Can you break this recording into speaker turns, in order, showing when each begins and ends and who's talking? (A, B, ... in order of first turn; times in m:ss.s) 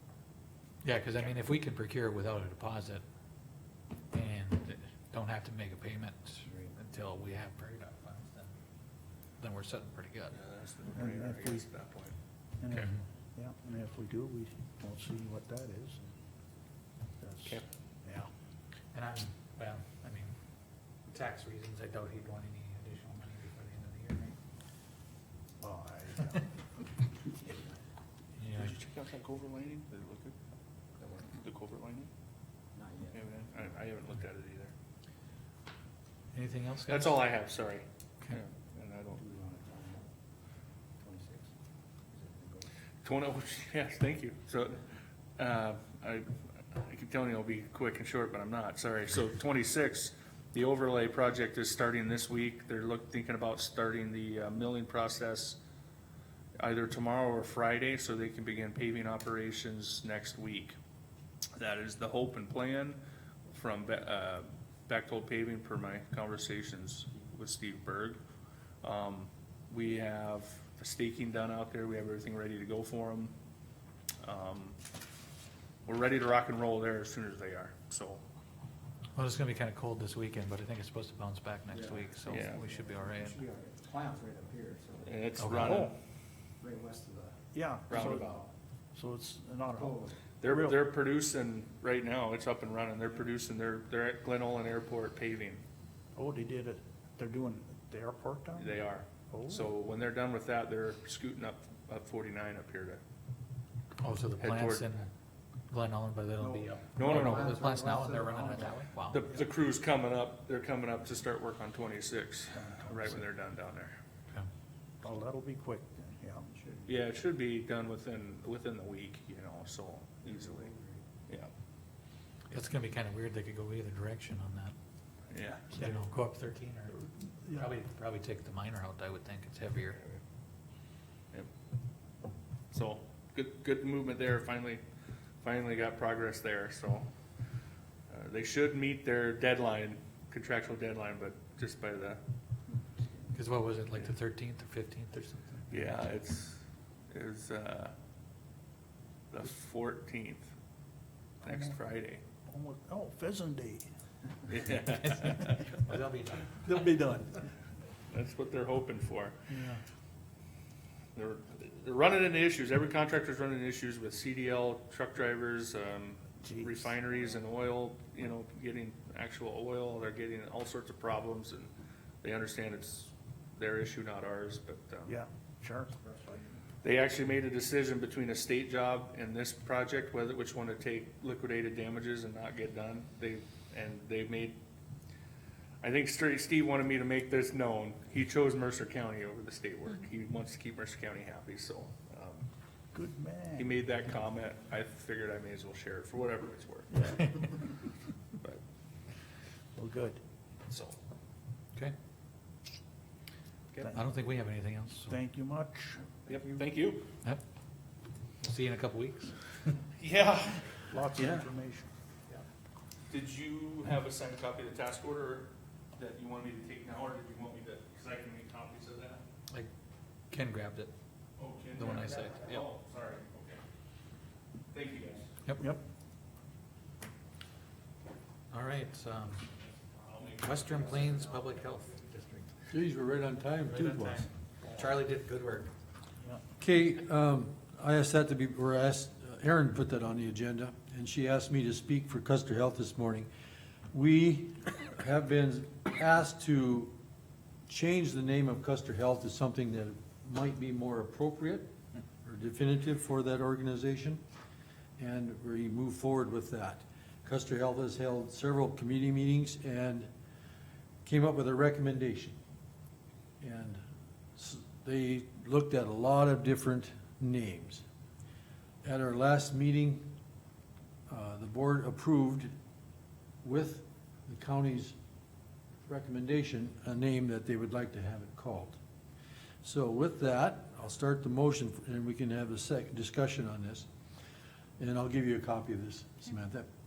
0:00.8-0:03.0 A
0:04.1-0:08.5 A
0:06.5-0:06.7 B
0:09.4-0:10.4 A
0:10.3-0:12.2 C
0:11.0-0:11.7 D
0:12.6-0:16.0 D
0:12.7-0:13.0 A
0:17.2-0:18.3 D
0:18.9-0:20.3 A
0:21.1-0:24.4 A
0:25.6-0:26.5 D
0:27.4-0:27.8 D
0:28.4-0:28.8 A
0:28.6-0:30.4 C
0:31.0-0:31.3 B
0:31.3-0:32.1 C
0:32.7-0:33.9 B
0:33.1-0:34.7 C
0:36.3-0:37.2 A
0:36.9-0:39.2 C
0:39.2-0:40.1 B
0:41.0-0:41.5 B
0:42.1-0:42.7 B
0:43.0-0:44.8 C
0:45.4-0:55.6 C
0:56.6-1:00.8 C
1:01.6-1:08.2 C
1:08.8-1:13.3 C
1:14.2-1:14.8 C
1:15.9-1:18.2 C
1:19.2-1:23.4 A
1:21.7-1:25.2 B
1:22.3-1:22.6 C
1:25.0-1:25.9 C
1:25.4-1:25.9 A
1:25.6-1:25.9 D
1:26.6-1:28.5 B
1:27.5-1:28.4 D
1:27.9-1:28.4 C
1:29.0-1:30.9 D
1:29.7-1:30.4 B
1:30.4-1:35.6 C
1:36.2-1:39.7 D
1:38.6-1:43.0 C
1:44.0-1:45.1 A
1:44.4-1:44.9 C
1:45.7-1:49.3 A
1:46.4-1:48.7 B
1:47.0-1:47.8 C
1:49.1-1:54.0 C
1:52.6-1:53.2 D
1:55.0-1:56.7 D
1:56.9-2:00.7 C
2:00.2-2:01.0 B
2:02.5-2:04.7 A
2:05.3-2:05.8 C
2:05.8-2:10.0 A
2:09.9-2:10.2 C
2:12.7-2:14.8 C
2:15.4-2:17.1 C
2:18.1-2:22.2 C
2:23.3-2:26.0 A
2:25.7-2:27.9 C
2:29.3-2:30.5 C
2:31.4-2:31.8 D
2:31.4-2:32.2 C
2:32.5-2:33.9 D
2:34.5-2:35.7 C
2:34.9-2:36.7 A
2:36.5-2:37.5 D
2:38.1-2:39.4 C
2:39.5-2:39.8 D
2:41.2-2:51.7 C
2:46.4-2:46.9 D
2:52.2-2:55.1 C
2:55.1-2:56.4 D
2:56.0-2:56.4 B
2:56.8-3:04.6 C
3:05.8-3:12.5 C
3:12.9-3:13.8 D
3:13.6-3:17.4 C
3:16.9-3:17.6 D
3:19.8-3:20.2 D
3:20.7-3:21.0 C
3:23.9-3:25.2 A
3:25.1-3:26.1 D
3:26.3-3:27.0 C
3:28.4-3:29.4 A
3:30.0-3:30.7 C
3:30.9-3:31.9 D
3:33.1-3:39.2 C
3:40.3-3:40.9 A
3:41.4-3:43.6 C
3:41.8-3:42.7 A
3:44.7-3:45.3 C
3:45.4-3:45.7 A
3:48.5-3:49.5 A
3:50.0-3:51.0 C
3:50.4-3:52.5 A
3:52.7-3:54.3 E
3:53.6-3:55.7 A
3:56.6-4:03.3 E
4:03.9-4:06.9 E
4:07.7-4:11.7 E
4:12.2-4:14.2 E
4:15.0-4:20.1 E
4:21.0-4:22.4 E
4:23.4-4:23.8 E
4:24.4-4:27.8 E
4:28.8-4:30.1 E
4:31.1-4:32.5 E
4:33.4-4:35.0 E
4:35.9-4:38.8 E
4:39.6-4:43.9 E
4:44.8-4:46.7 E